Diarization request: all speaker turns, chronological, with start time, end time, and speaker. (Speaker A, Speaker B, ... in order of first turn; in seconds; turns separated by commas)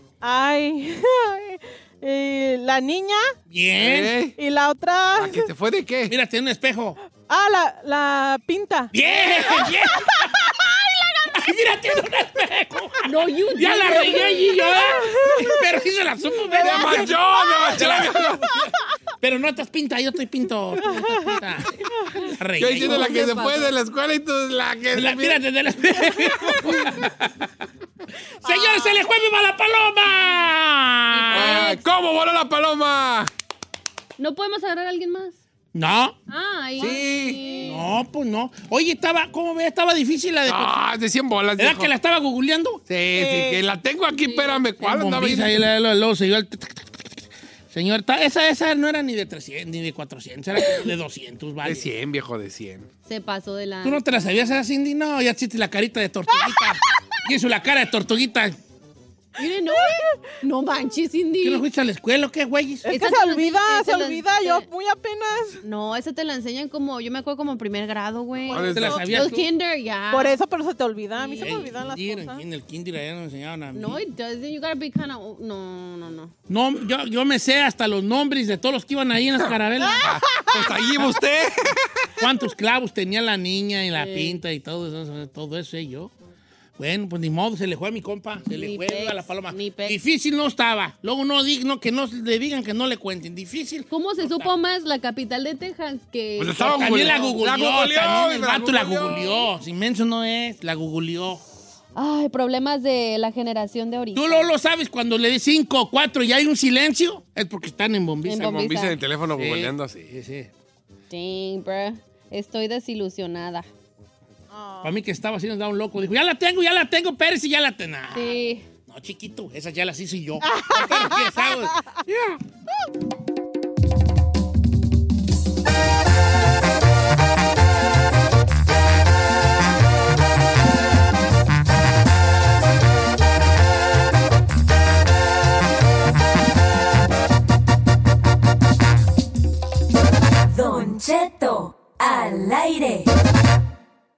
Speaker A: 0.2-3.3, Speaker B: 3.5-4.2, Speaker C: 3.8-4.4, Speaker A: 4.4-5.5, Speaker C: 5.2-6.1, Speaker B: 6.1-7.0, Speaker A: 7.3-8.9, Speaker B: 8.9-10.5, Speaker A: 9.5-11.0, Speaker B: 11.3-23.1, Speaker D: 13.0-14.8, Speaker A: 15.0-15.6, Speaker C: 16.6-18.5, Speaker D: 20.8-21.4, Speaker C: 22.6-25.4, Speaker D: 22.8-23.7, Speaker B: 24.9-27.1, Speaker C: 26.0-27.0, Speaker B: 28.4-31.7, Speaker D: 31.1-31.8, Speaker C: 31.3-33.3, Speaker D: 34.2-35.4, Speaker B: 35.7-36.2, Speaker D: 36.3-37.9, Speaker C: 36.8-37.4, Speaker B: 37.5-40.8, Speaker C: 40.5-41.9, Speaker B: 41.6-42.8, Speaker C: 42.9-45.5, Speaker A: 43.1-43.6, Speaker D: 44.2-44.6, Speaker B: 44.8-47.1, Speaker B: 47.7-51.9, Speaker C: 51.6-52.9, Speaker D: 53.0-54.3, Speaker B: 53.8-58.5, Speaker D: 59.4-61.6, Speaker A: 59.7-60.1, Speaker B: 61.4-62.9, Speaker D: 62.9-64.6, Speaker A: 62.9-65.6, Speaker D: 65.6-70.4, Speaker C: 68.5-69.2, Speaker A: 68.5-69.2, Speaker B: 68.7-69.5, Speaker A: 70.1-72.4, Speaker D: 71.2-71.7, Speaker B: 71.4-74.0, Speaker D: 73.7-76.3, Speaker B: 76.5-80.1, Speaker C: 79.4-82.1, Speaker B: 82.2-86.1, Speaker D: 83.9-84.4, Speaker B: 86.8-94.5, Speaker D: 88.5-90.0, Speaker D: 93.9-97.3, Speaker C: 96.4-99.4, Speaker B: 96.6-101.4, Speaker D: 102.0-104.5, Speaker B: 104.1-108.7, Speaker D: 108.2-109.0, Speaker C: 108.5-110.1, Speaker B: 109.3-110.5, Speaker D: 111.1-113.7, Speaker A: 114.5-114.9, Speaker B: 114.8-118.3, Speaker D: 118.1-118.7, Speaker B: 118.9-121.8, Speaker A: 120.4-121.8, Speaker E: 140.5-143.1